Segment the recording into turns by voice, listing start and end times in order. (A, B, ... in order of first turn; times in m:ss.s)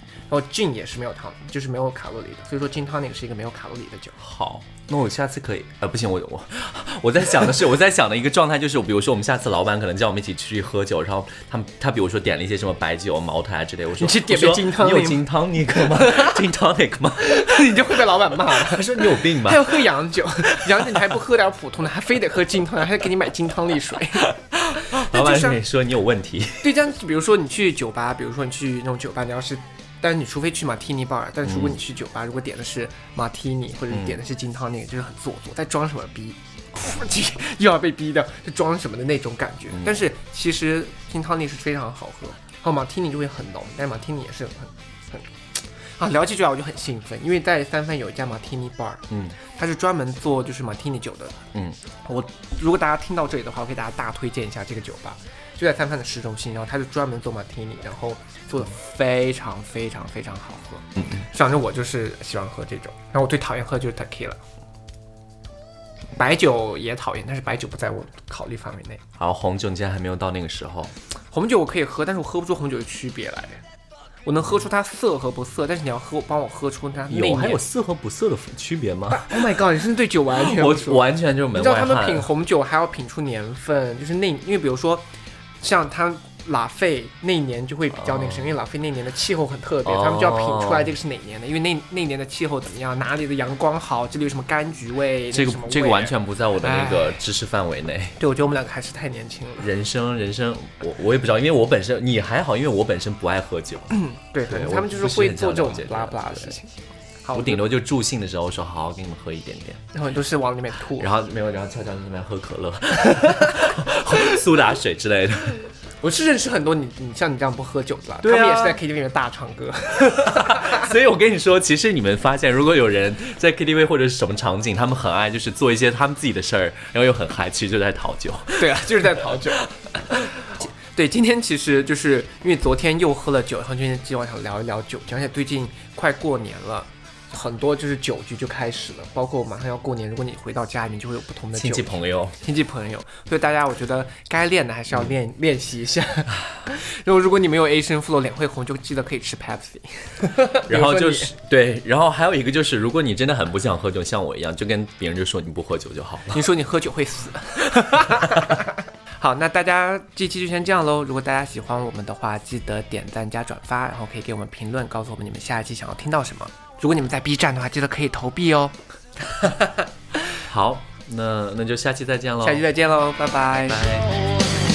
0:00.3-0:04.2 A
0:04.2-0:17.8 B
0:14.0-0:16.4 A
0:17.2-0:25.6 A
0:18.5-0:19.9 B
0:20.5-0:21.0 B
0:24.5-0:26.7 B
0:26.6-0:51.4 A
0:31.4-0:31.8 B
0:49.1-0:49.4 B
0:52.0-1:04.4 A
1:06.2-1:09.0 A
1:09.2-1:10.9 B
1:11.3-1:13.6 A
1:14.2-1:17.6 A
1:17.1-1:19.5 B
1:19.1-1:25.1 A
1:20.3-1:22.3 B
1:25.6-1:37.2 A
1:28.0-1:28.5 B
1:29.8-1:30.9 B
1:35.3-1:38.2 B
1:38.2-1:39.7 A
1:39.6-1:46.6 B
1:43.9-1:46.7 A
1:47.2-1:47.6 A
1:47.3-1:49.8 B
1:49.9-1:51.1 A
1:51.0-1:55.7 B
1:53.1-1:54.2 A
1:56.0-2:00.9 A
1:58.2-1:58.8 B
2:00.0-2:09.5 B
2:08.6-2:31.3 A
2:21.5-2:22.4 B
2:30.7-2:36.4 B
2:36.3-2:49.8 A
2:50.5-2:52.6 B
2:52.4-2:53.8 A
2:53.6-2:54.2 B